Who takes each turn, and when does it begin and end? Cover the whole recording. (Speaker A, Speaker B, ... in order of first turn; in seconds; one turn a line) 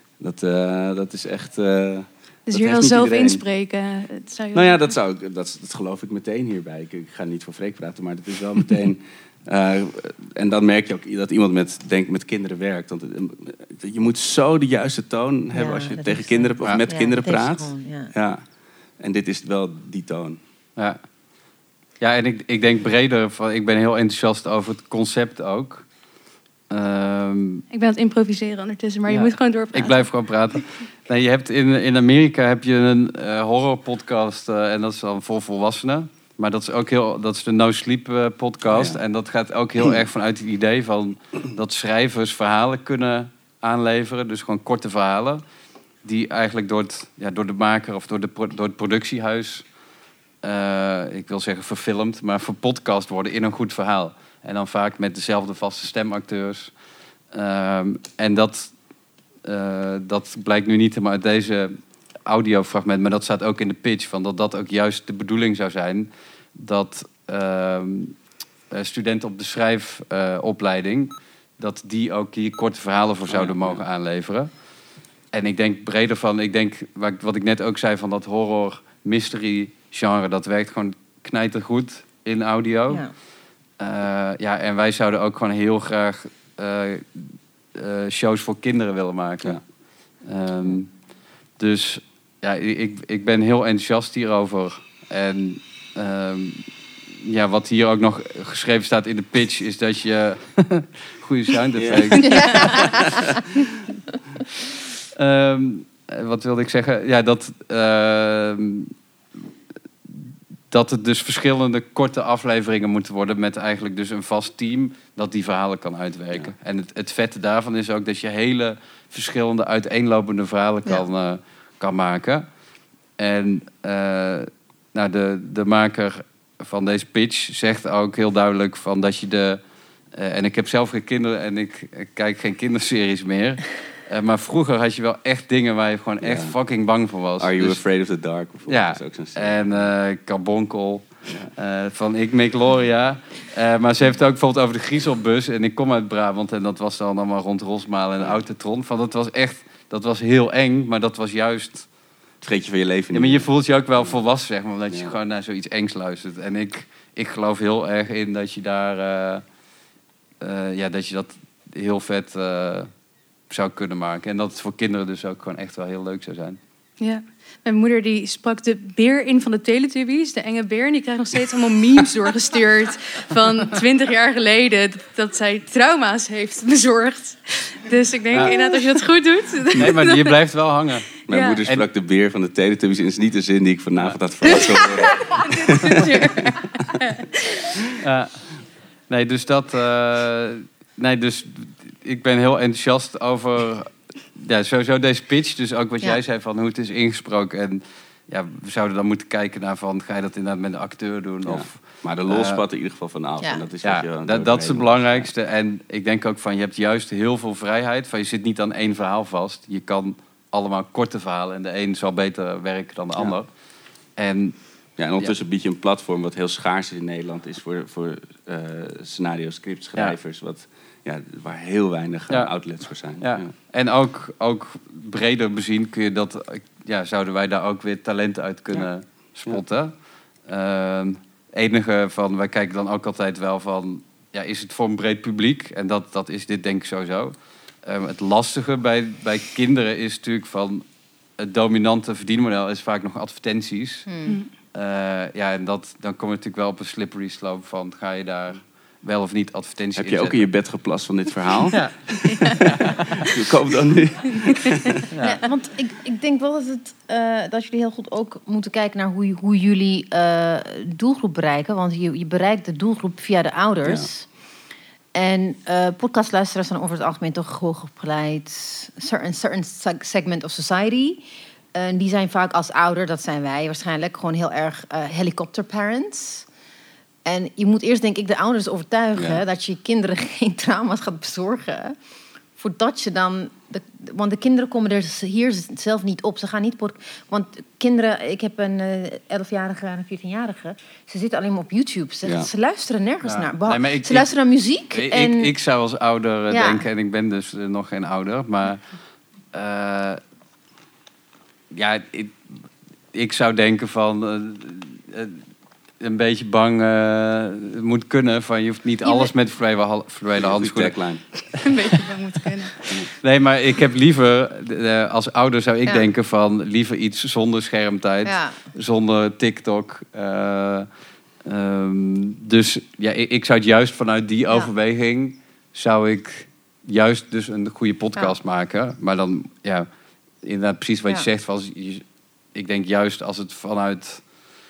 Speaker A: 0.2-3.4
Speaker B: 2.5-4.9
Speaker A: 4.5-18.4
Speaker C: 15.5-18.1
Speaker A: 19.0-20.4
Speaker D: 22.0-25.8
Speaker D: 26.7-27.6
Speaker B: 27.7-30.1
Speaker D: 29.1-45.4
Speaker A: 38.6-39.0
Speaker D: 46.0-49.6
Speaker D: 50.4-56.7
Speaker D: 57.3-58.7
Speaker D: 59.4-61.7
Speaker D: 62.2-68.2
Speaker D: 68.7-74.5
Speaker A: 73.3-73.8
Speaker D: 75.3-83.0
Speaker D: 83.8-89.6
Speaker D: 90.2-90.9
Speaker D: 91.6-96.7
Speaker D: 97.2-103.0
Speaker A: 101.8-103.3
Speaker C: 102.2-103.3
Speaker D: 105.2-108.9
Speaker D: 110.7-122.5
Speaker D: 123.2-129.6
Speaker D: 130.1-137.8
Speaker A: 136.2-136.6
Speaker A: 137.4-139.9
Speaker D: 138.7-151.8
Speaker A: 152.4-154.2
Speaker D: 153.1-159.4
Speaker D: 160.4-162.9
Speaker D: 163.5-166.6
Speaker B: 167.0-180.2
Speaker D: 178.3-178.6
Speaker D: 179.8-181.1
Speaker A: 181.3-186.2
Speaker B: 181.3-181.6
Speaker D: 184.0-184.6
Speaker B: 185.3-187.6
Speaker D: 188.0-188.3
Speaker D: 189.1-202.6
Speaker A: 201.4-205.3
Speaker D: 203.8-213.5
Speaker D: 214.2-214.6
Speaker A: 215.0-223.5
Speaker D: 223.2-229.9
Speaker D: 230.4-237.3
Speaker D: 237.8-240.8
Speaker D: 241.4-244.1
Speaker C: 244.1-244.4
Speaker D: 244.7-250.4
Speaker A: 249.9-251.9
Speaker D: 252.7-253.3
Speaker A: 252.8-255.0
Speaker D: 255.1-255.4
Speaker C: 255.2-264.3
Speaker C: 265.1-276.5
Speaker C: 277.2-281.9
Speaker A: 279.1-279.4
Speaker C: 282.6-295.5
Speaker D: 293.3-294.3
Speaker D: 294.9-298.8
Speaker C: 296.5-296.9
Speaker D: 299.5-300.2
Speaker D: 301.7-302.4
Speaker D: 303.1-305.4
Speaker D: 306.0-310.9
Speaker C: 309.0-309.3
Speaker A: 310.4-311.2
Speaker B: 311.6-312.8
Speaker D: 313.2-320.9
Speaker C: 318.2-318.6
Speaker D: 321.4-329.9
Speaker D: 330.4-334.2